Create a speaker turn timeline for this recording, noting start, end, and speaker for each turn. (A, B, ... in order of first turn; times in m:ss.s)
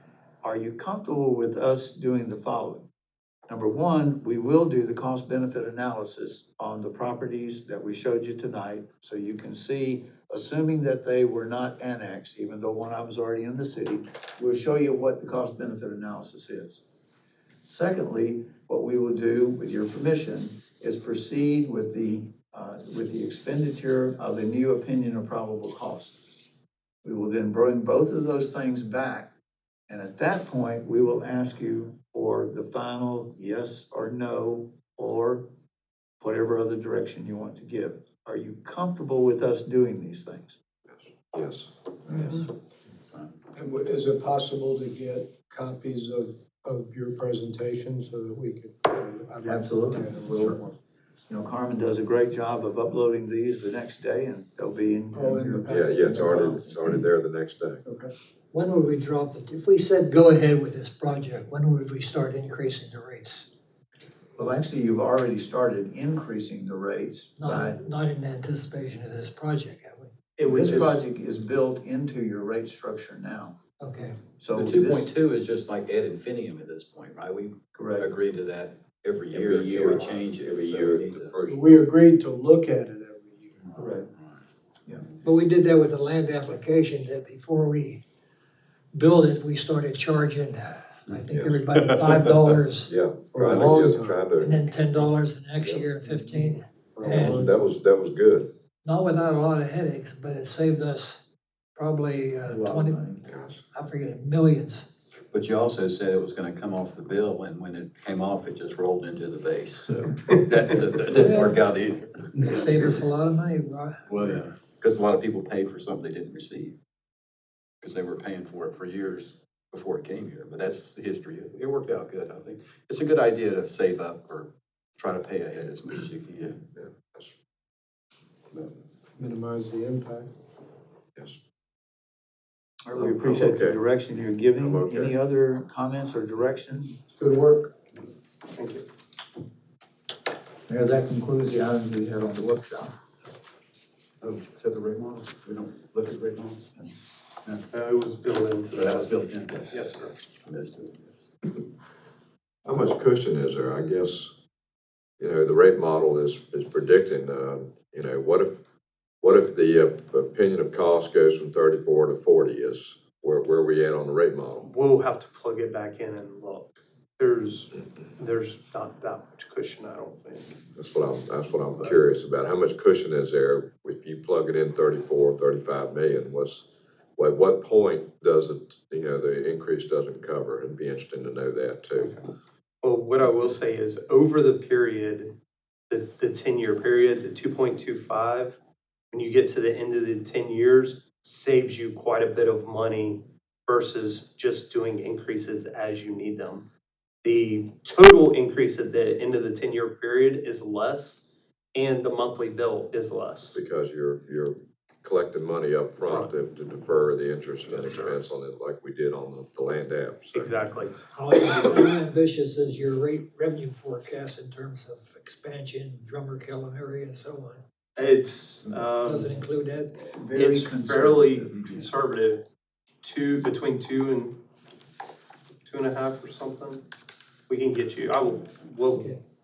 0:00.4-0:02.9 A
0:03.5-0:16.8 A
0:17.6-0:26.2 A
0:27.0-0:29.3 A
0:29.9-0:35.5 A
0:36.2-0:40.6 A
0:41.3-0:42.4 B
0:43.5-0:50.8 C
0:49.4-0:50.6 A
0:51.3-0:56.7 A
0:55.1-0:56.8 C
0:55.7-0:57.8 B
0:57.8-0:58.1 C
0:58.5-1:03.5 D
1:04.4-1:07.8 A
1:07.4-1:10.1 D
1:10.4-1:11.0 E
1:10.4-1:13.6 A
1:13.8-1:14.3 D
1:14.4-1:15.1 A
1:14.5-1:21.3 F
1:17.8-1:18.1 A
1:19.3-1:21.6 B
1:21.5-1:23.8 C
1:23.8-1:24.1 A
1:25.2-1:28.0 D
1:28.9-1:33.0 D
1:32.9-1:34.5 B
1:33.3-1:34.3 C
1:34.3-1:37.5 D
1:37.0-1:37.6 C
1:37.4-1:38.5 B
1:38.8-1:41.2 D
1:41.8-1:43.2 D
1:42.5-1:43.2 A
1:43.3-1:43.6 B
1:43.7-1:44.9 D
1:45.3-1:53.0 F
1:51.2-1:51.5 D
1:52.4-1:54.2 D
1:54.1-1:56.8 F
1:57.8-2:06.6 F
2:06.5-2:07.3 B
2:08.5-2:10.3 C
2:12.9-2:17.0 A
2:13.0-2:13.8 B
2:14.3-2:15.2 B
2:17.2-2:17.7 C
2:18.5-2:18.8 E
2:20.7-2:22.9 A
2:24.2-2:26.7 F
2:27.7-2:29.1 E
2:28.7-2:29.8 F
2:29.7-2:30.1 E
2:30.4-2:31.3 F
2:32.7-2:34.3 B
2:35.2-2:38.6 B
2:39.2-2:44.7 B
2:44.6-2:50.6 E
2:50.8-2:56.7 B
2:57.2-3:02.2 B
3:02.8-3:05.3 E
3:05.9-3:08.6 E
3:09.1-3:16.7 E
3:17.2-3:23.6 E
3:23.6-3:30.5 B
3:26.0-3:26.4 E
3:27.6-3:28.2 E
3:30.3-3:31.0 E
3:31.1-3:37.6 D
3:38.0-3:39.3 E
3:39.0-3:40.1 D
3:40.1-3:41.9 A
3:40.4-3:42.4 E
3:43.0-3:44.4 E
3:45.6-3:46.8 E
3:47.5-3:49.2 E